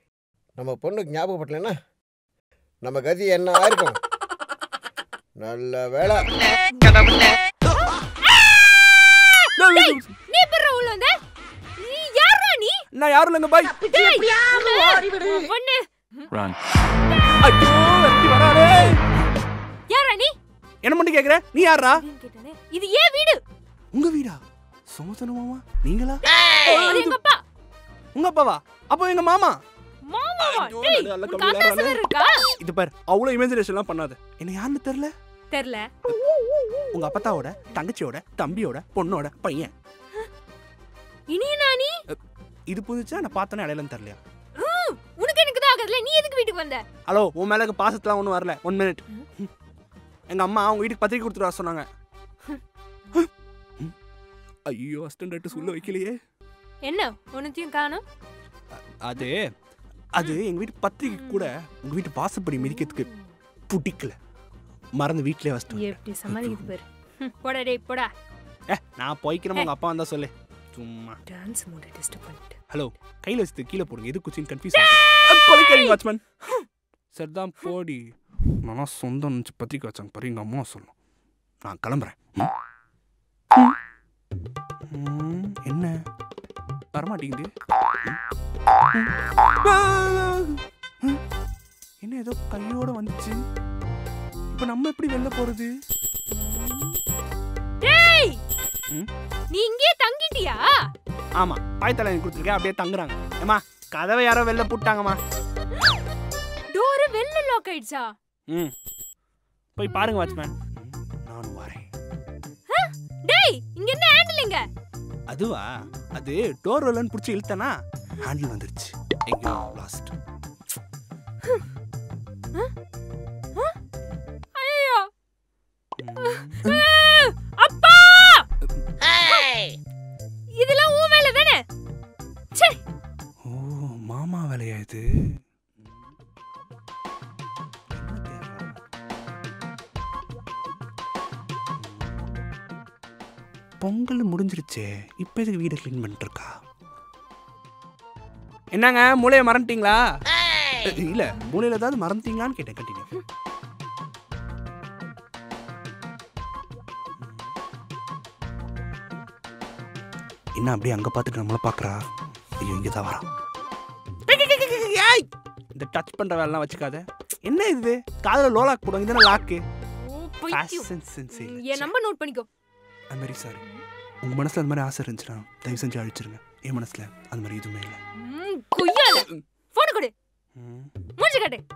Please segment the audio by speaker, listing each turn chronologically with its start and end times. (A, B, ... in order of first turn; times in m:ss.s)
0:00.6-0:01.7 A
0:02.8-0:04.0 A
0:05.4-0:06.3 A
0:06.7-0:07.3 B
0:08.2-0:11.2 B
0:09.6-0:10.2 C
0:11.8-0:12.8 B
0:12.9-0:13.9 C
0:13.8-0:16.3 B
0:17.4-0:19.0 C
0:19.9-0:20.3 B
0:20.8-0:22.0 C
0:21.9-0:23.4 B
0:23.9-0:27.2 C
0:26.3-0:27.4 B
0:28.1-0:29.6 C
0:30.1-0:32.5 B
0:30.4-0:32.0 C
0:32.6-0:35.1 C
0:35.5-0:35.9 B
0:36.9-0:39.7 C
0:41.3-0:42.0 B
0:42.7-0:44.2 C
0:44.6-0:46.8 B
0:47.0-0:49.5 C
0:50.3-0:51.9 C
0:53.1-0:53.9 C
0:54.7-0:56.2 C
0:55.5-0:55.8 B
0:56.8-0:58.0 B
0:58.8-0:59.5 C
1:00.1-1:03.1 C
1:01.0-1:01.5 B
1:02.6-1:03.3 B
1:03.7-1:04.2 C
1:05.0-1:06.7 C
1:05.7-1:08.1 B
1:08.7-1:11.2 C
1:11.3-1:12.6 B
1:12.7-1:16.3 C
1:15.6-1:16.6 B
1:17.1-1:20.9 C
1:21.6-1:22.5 C
1:24.9-1:26.0 C
1:26.9-1:27.5 C
1:28.9-1:31.2 C
1:32.0-1:33.4 C
1:34.5-1:35.7 C
1:36.4-1:37.0 B
1:37.8-1:38.4 B
1:39.5-1:40.9 B
1:41.4-1:45.2 C
1:46.7-1:48.1 B
1:49.8-1:51.9 C
1:52.7-1:54.6 B
1:55.3-2:00.2 C
2:04.5-2:05.1 B
2:06.0-2:06.8 C
2:06.2-2:08.5 B
2:09.1-2:09.7 B
2:10.5-2:11.6 B
2:12.5-2:12.8 B
2:13.4-2:16.1 C
2:17.9-2:18.8 C
2:21.8-2:22.2 C
2:23.8-2:26.6 C
2:28.7-2:30.0 C
2:30.8-2:33.1 C
2:37.2-2:37.5 C
2:40.5-2:42.0 C
2:42.6-2:43.2 C
2:44.3-2:49.6 C
2:49.8-2:52.5 B
2:50.5-2:51.9 C
2:53.1-2:53.6 C
2:54.2-2:58.0 C
2:58.2-3:00.1 B
2:59.1-2:59.4 C
3:00.6-3:00.9 C
3:01.2-3:01.6 B